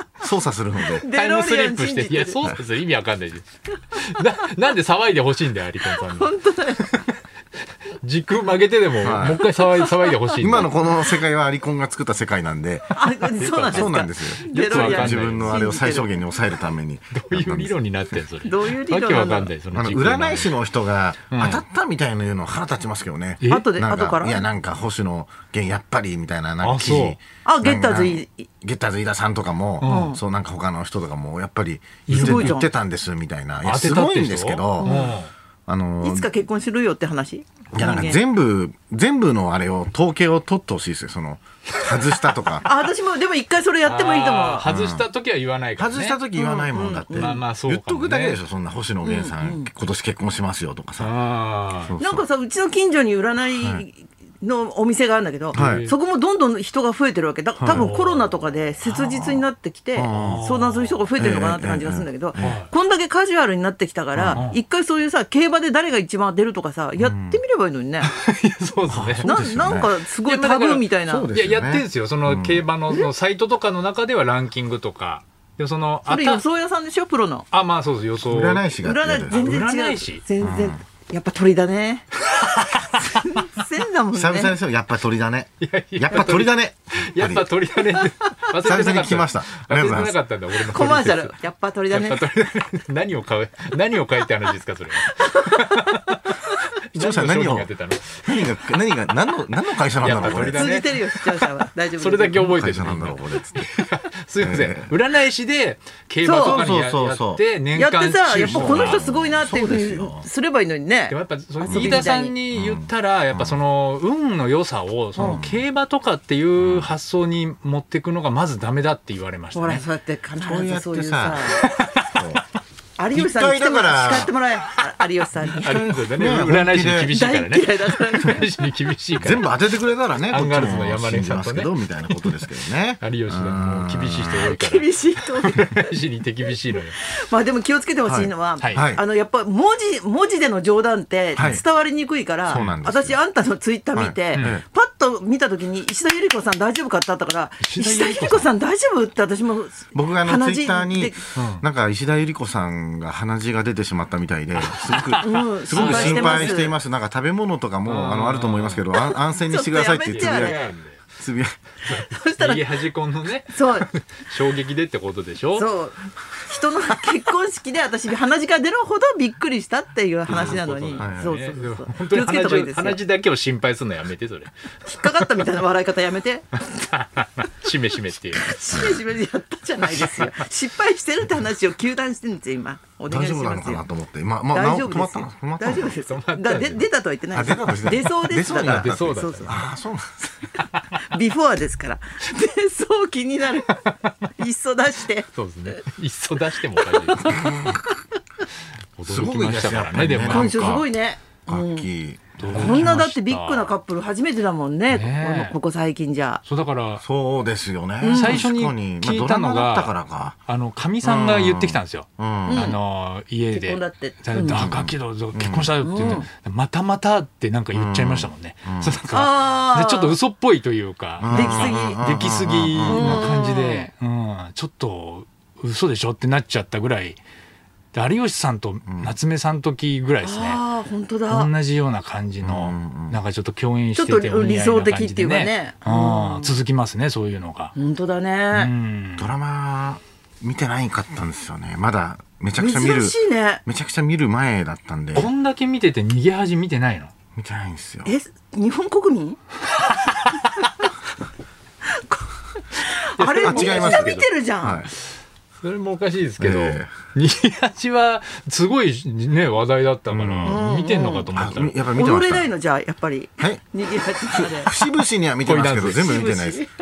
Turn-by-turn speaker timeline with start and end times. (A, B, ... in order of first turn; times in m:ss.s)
0:00.2-0:01.1 A
0:01.0-0:02.4 B
0:01.1-0:07.2 C
0:05.9-0:06.8 B
0:08.0-0:10.7 C
0:09.0-0:09.4 A
0:10.4-0:12.9 A
0:12.9-0:16.2 B
0:13.4-0:15.6 C
0:13.7-0:17.8 A
0:17.1-0:20.6 C
0:18.4-0:19.5 B
0:19.7-0:35.0 A
0:21.3-0:21.6 C
0:23.4-0:23.7 C
0:23.5-0:24.4 B
0:26.6-0:27.2 C
0:27.4-0:28.5 B
0:29.8-0:30.1 C
0:29.8-0:30.2 B
0:32.1-0:32.7 C
0:32.1-0:32.7 B
0:33.6-0:35.3 C
0:34.8-0:35.2 B
0:35.7-0:36.3 A
0:36.0-0:38.2 B
0:37.7-0:42.7 A
0:42.6-0:44.7 B
0:43.9-0:46.2 C
0:44.7-0:45.0 A
0:45.8-0:51.1 A
0:46.4-0:47.4 B
0:47.1-0:48.4 C
0:49.0-0:49.7 B
0:51.0-0:51.9 C
0:51.8-0:52.2 A
0:52.0-1:08.1 B
0:55.5-0:55.9 C
0:55.6-0:55.8 A
0:57.6-0:57.9 A
0:57.7-0:58.3 C
0:58.9-0:59.4 A
1:00.0-1:00.4 A
1:00.1-1:01.0 C
1:01.2-1:02.6 A
1:02.4-1:02.7 C
1:04.1-1:04.4 A
1:04.3-1:04.6 C
1:07.0-1:07.4 A
1:08.0-1:09.3 C
1:08.9-1:09.9 A
1:09.2-1:11.3 B
1:10.2-1:16.4 C
1:11.1-1:12.6 A
1:16.1-1:17.4 B
1:17.5-1:18.8 C
1:18.2-1:19.4 A
1:18.8-1:22.1 B
1:19.3-1:20.2 C
1:20.4-1:20.8 A
1:22.3-1:23.4 C
1:22.6-1:24.6 B
1:24.1-1:27.5 A
1:25.6-1:31.4 C
1:28.6-1:30.2 A
1:30.6-1:32.2 B
1:31.9-1:38.7 C
1:35.0-1:36.0 B
1:37.0-1:37.7 A
1:38.2-1:40.7 A
1:40.0-1:49.0 C
1:40.2-1:42.5 B
1:42.4-1:43.7 A
1:44.4-1:44.9 A
1:46.2-1:46.6 B
1:46.3-1:47.4 A
1:47.7-1:52.3 B
1:48.4-1:50.3 A
1:51.1-1:59.8 C
1:51.7-1:52.0 A
1:52.5-1:53.6 A
1:55.2-1:55.6 A
1:56.6-1:56.9 A
1:59.5-2:01.7 B
2:00.4-2:01.6 A
2:01.5-2:02.4 C
2:02.1-2:02.4 A
2:03.0-2:05.9 B
2:03.1-2:04.3 A
2:05.5-2:09.5 C
2:06.1-2:07.1 A
2:07.1-2:08.5 B
2:09.2-2:14.6 A
2:10.3-2:14.9 C
2:14.3-2:15.9 B
2:15.4-2:17.0 C
2:17.0-2:31.2 B
2:18.1-2:19.0 A
2:21.4-2:21.6 A
2:22.5-2:23.2 A
2:22.5-2:22.8 C
2:23.9-2:24.6 A
2:24.3-2:24.6 C
2:27.6-2:28.5 C
2:29.9-2:41.6 A
2:31.4-2:31.6 C
2:34.6-2:36.6 C
2:35.2-2:36.8 B
2:37.8-2:38.9 C
2:38.9-2:40.6 B
2:40.1-2:41.0 C
2:41.8-2:42.8 B
2:41.9-2:45.7 C
2:43.5-2:43.9 B
2:45.5-2:53.0 B
2:50.3-2:55.4 C
2:51.0-2:51.3 A
2:54.8-2:56.5 B
2:56.9-2:58.6 C
2:58.4-3:03.8 B
3:03.1-3:06.0 A
3:04.5-3:09.6 B
3:05.9-3:06.8 C
3:07.3-3:10.2 A
3:08.5-3:09.6 C
3:11.0-3:13.8 B
3:14.4-3:15.8 B
3:15.3-3:17.4 C
3:17.0-3:17.8 B
3:17.3-3:17.8 A
3:19.0-3:20.8 C
3:19.1-3:20.9 A
3:20.2-3:21.9 B
3:21.5-3:22.9 A
3:22.4-3:23.7 C
3:22.5-3:26.4 B
3:24.9-3:25.6 C
3:26.4-3:27.0 C
3:27.0-3:30.4 A
3:28.0-3:28.4 B
3:28.1-3:29.9 C
3:30.5-3:47.2 C
3:31.0-3:32.7 A
3:32.5-3:32.8 B
3:33.5-3:34.7 B
3:34.4-3:35.8 A
3:35.8-3:36.2 B
3:37.7-3:39.0 A
3:39.1-3:40.2 B
3:41.2-3:43.3 A
3:41.3-3:42.0 B
3:42.9-3:43.9 B
3:47.9-3:50.6 C
3:48.9-3:49.1 A
3:50.2-3:51.5 B
3:51.3-3:57.7 C
3:52.4-3:53.2 A
3:54.0-3:56.6 B
3:57.8-3:58.7 B
3:58.5-3:59.3 C
3:59.2-4:05.3 A
4:02.6-4:03.6 B
4:05.2-4:07.1 C
4:07.4-4:08.1 A
4:08.0-4:09.4 B
4:11.9-4:14.9 B
4:13.2-4:14.3 C
4:13.4-4:14.9 A
4:15.6-4:21.9 C
4:16.4-4:16.9 A
4:20.1-4:20.7 A
4:20.4-4:21.3 B
4:21.3-4:22.5 A
4:21.9-4:24.7 B
4:24.2-4:26.6 A
4:25.4-4:26.5 C
4:26.2-4:26.7 B